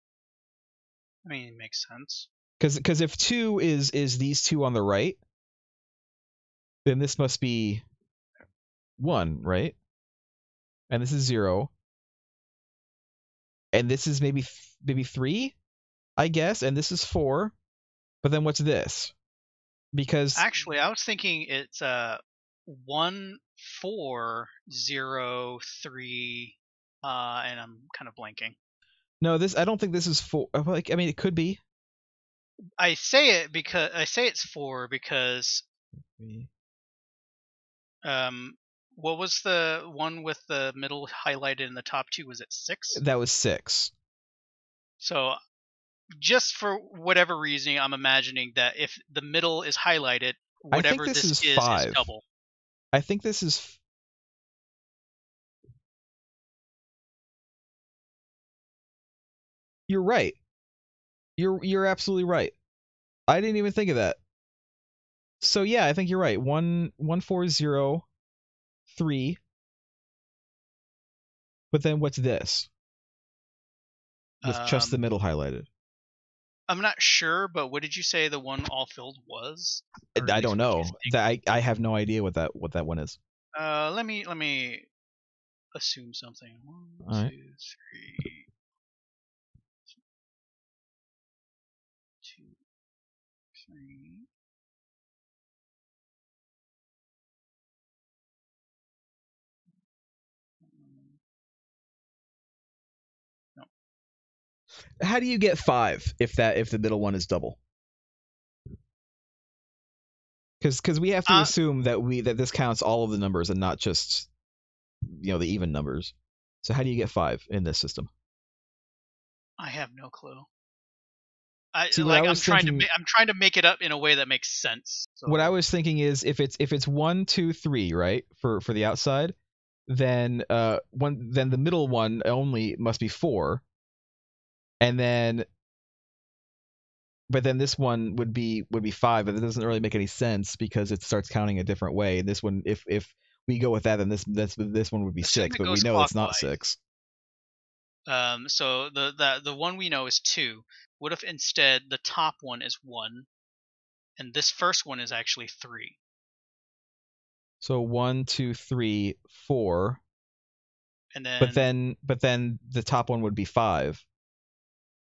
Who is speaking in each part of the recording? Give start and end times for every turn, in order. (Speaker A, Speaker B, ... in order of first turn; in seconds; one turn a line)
Speaker A: 1.2-2.3
Speaker B: 2.6-5.2
Speaker B: 6.8-7.8
Speaker B: 9.0-9.8
Speaker B: 10.9-11.7
Speaker B: 13.7-15.5
Speaker B: 16.2-17.5
Speaker B: 18.2-19.1
Speaker B: 19.9-20.4
Speaker A: 20.3-28.6
Speaker B: 29.2-31.6
Speaker A: 32.8-35.6
Speaker B: 36.1-36.5
Speaker A: 38.0-43.0
Speaker B: 42.9-43.9
Speaker A: 45.0-45.4
Speaker A: 46.2-52.2
Speaker B: 50.7-52.1
Speaker B: 52.9-53.8
Speaker B: 59.9-60.4
Speaker B: 61.4-62.5
Speaker B: 63.3-64.2
Speaker B: 65.4-68.0
Speaker B: 68.9-69.4
Speaker B: 71.7-72.7
Speaker A: 74.4-75.0
Speaker B: 74.4-75.7
Speaker A: 76.7-81.2
Speaker B: 80.2-83.2
Speaker A: 83.5-84.9
Speaker A: 85.7-88.5
Speaker B: 87.0-87.3
Speaker A: 92.2-92.6
Speaker A: 93.5-94.3
Speaker A: 100.6-101.2
Speaker B: 105.0-107.6
Speaker B: 110.6-114.3
Speaker A: 111.3-111.5
Speaker B: 115.0-118.1
Speaker A: 119.6-120.5
Speaker A: 121.7-125.6
Speaker B: 121.9-122.9
Speaker B: 125.3-129.3
Speaker B: 129.9-133.6
Speaker B: 134.8-135.5
Speaker B: 137.3-146.8
Speaker A: 145.2-146.5
Speaker A: 148.1-153.3
Speaker A: 154.2-156.0
Speaker B: 157.6-160.0
Speaker A: 161.1-161.7
Speaker B: 161.4-164.0